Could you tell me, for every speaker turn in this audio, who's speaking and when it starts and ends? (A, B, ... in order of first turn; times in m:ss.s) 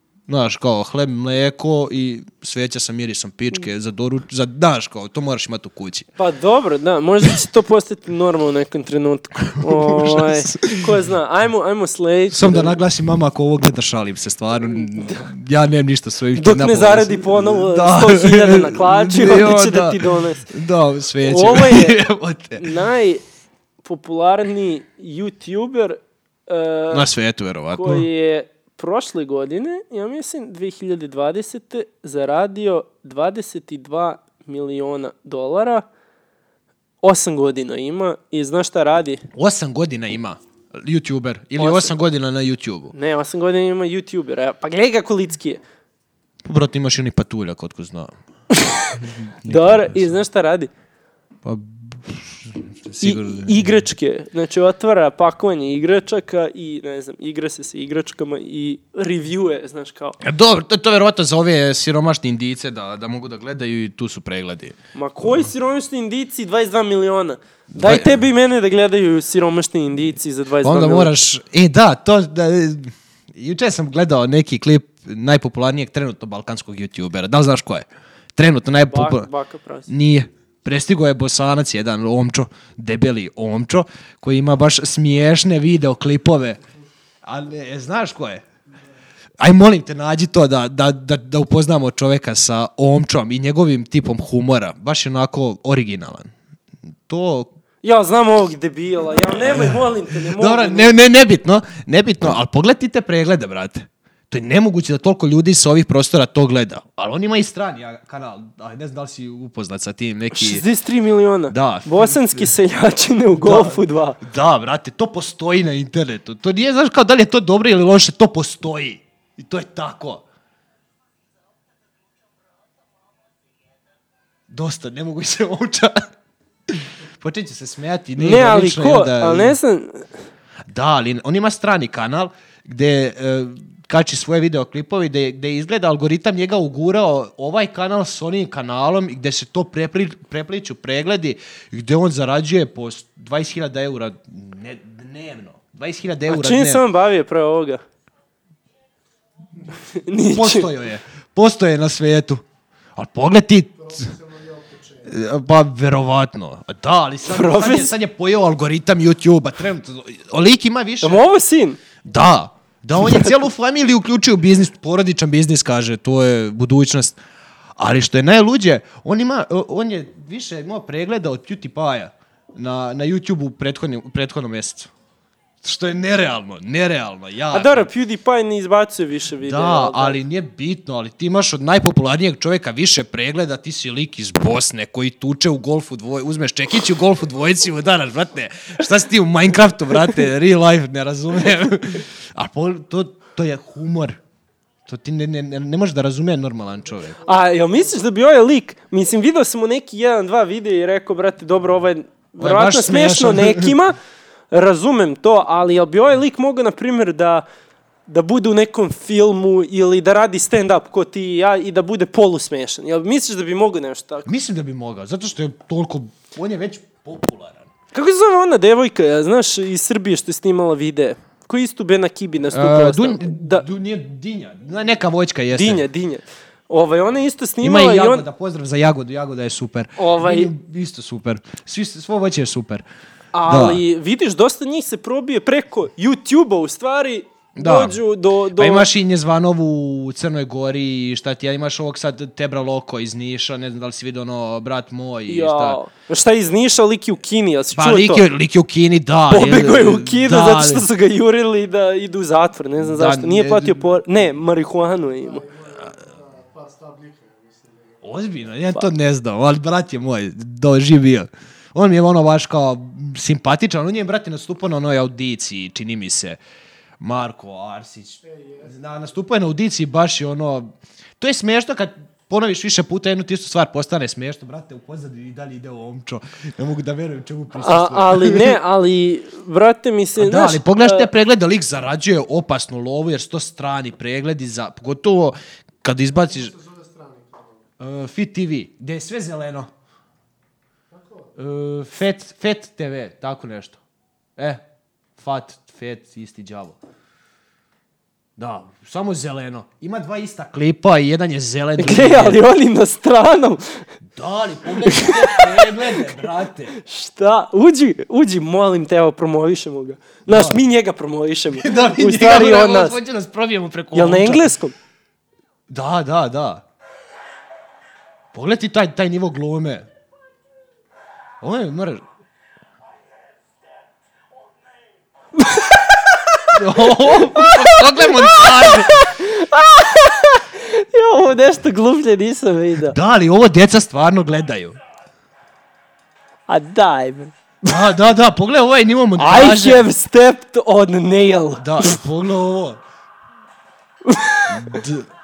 0:00.3-0:06.1 A
0:06.2-0:12.8 B
0:09.5-0:10.9 A
0:12.3-0:22.7 A
0:14.7-0:15.3 B
0:16.3-0:20.5 B
0:21.2-0:22.0 B
0:22.6-0:23.2 B
0:23.8-0:27.1 B
0:26.9-0:28.1 A
0:27.7-0:35.8 B
0:37.0-0:39.2 B
0:39.3-0:42.9 A
0:41.6-0:41.9 B
0:42.9-0:45.6 B
0:46.4-0:48.1 A
0:48.5-0:50.7 B
0:49.4-0:50.1 A
0:51.4-0:53.6 A
0:53.0-1:00.2 B
1:00.2-1:05.4 A
1:04.9-1:11.1 B
1:07.7-1:08.2 A
1:10.6-1:19.3 A
1:18.9-1:19.9 B
1:19.9-1:26.6 A
1:27.2-1:28.4 A
1:29.4-1:36.3 A
1:37.1-1:37.5 A
1:37.8-1:40.9 B
1:39.5-1:50.6 A
1:50.3-1:54.2 B
1:51.5-1:52.5 A
1:53.4-2:00.2 A
2:04.5-2:06.1 A
2:06.7-2:09.6 A
2:08.2-2:10.1 B
2:10.7-2:26.8 A
2:26.3-2:27.8 B
2:29.8-2:30.7 B
2:30.3-2:32.4 A
2:33.0-2:34.1 A
2:33.8-2:35.2 C
2:35.1-2:41.2 A
2:37.3-2:37.9 B
2:41.0-2:41.8 B
2:42.0-2:47.2 A
2:47.8-2:54.9 A
2:55.6-2:57.9 A
2:57.5-3:00.2 B
2:59.4-3:14.2 A
3:14.8-3:17.2 A
3:17.0-3:17.9 C
3:17.2-3:24.0 B
3:22.4-3:23.8 A
3:24.5-3:27.4 B
3:28.1-3:34.3 B
3:34.2-3:37.7 A
3:37.9-3:43.6 B
3:42.5-3:45.8 A
3:45.5-3:48.2 B
3:47.6-3:52.8 A
3:50.0-3:50.5 B
3:53.3-3:58.9 B
3:53.4-3:53.8 A
3:57.6-3:58.0 A
3:58.5-4:05.8 A
4:05.3-4:08.2 B
4:07.7-4:10.8 A
4:09.3-4:15.4 B
4:12.8-4:13.9 A
4:15.2-4:18.5 C
4:18.0-4:26.4 A
4:27.0-4:38.6 A
4:28.2-4:28.7 C
4:37.6-4:41.1 B
4:40.2-4:46.5 A
4:46.2-4:47.7 C
4:47.8-4:49.7 A
4:50.9-4:51.3 C
4:51.4-4:53.8 A
4:54.4-4:54.6 A
4:55.2-4:56.8 A
4:58.4-5:02.4 A
5:01.8-5:03.8 B
5:04.1-5:06.7 A
5:04.8-5:06.1 B
5:06.7-5:13.0 B
5:10.3-5:10.6 A
5:11.5-5:14.5 A
5:13.9-5:14.7 B
5:15.7-5:16.6 A
5:18.3-5:19.9 A
5:21.4-5:22.0 A
5:25.3-5:32.9 B
5:26.5-5:29.0 A
5:32.8-5:34.8 A
5:36.5-5:37.8 B
5:37.6-5:39.9 A
5:39.2-5:42.0 B
5:41.6-5:42.8 A
5:44.0-5:44.8 B
5:44.5-5:45.1 A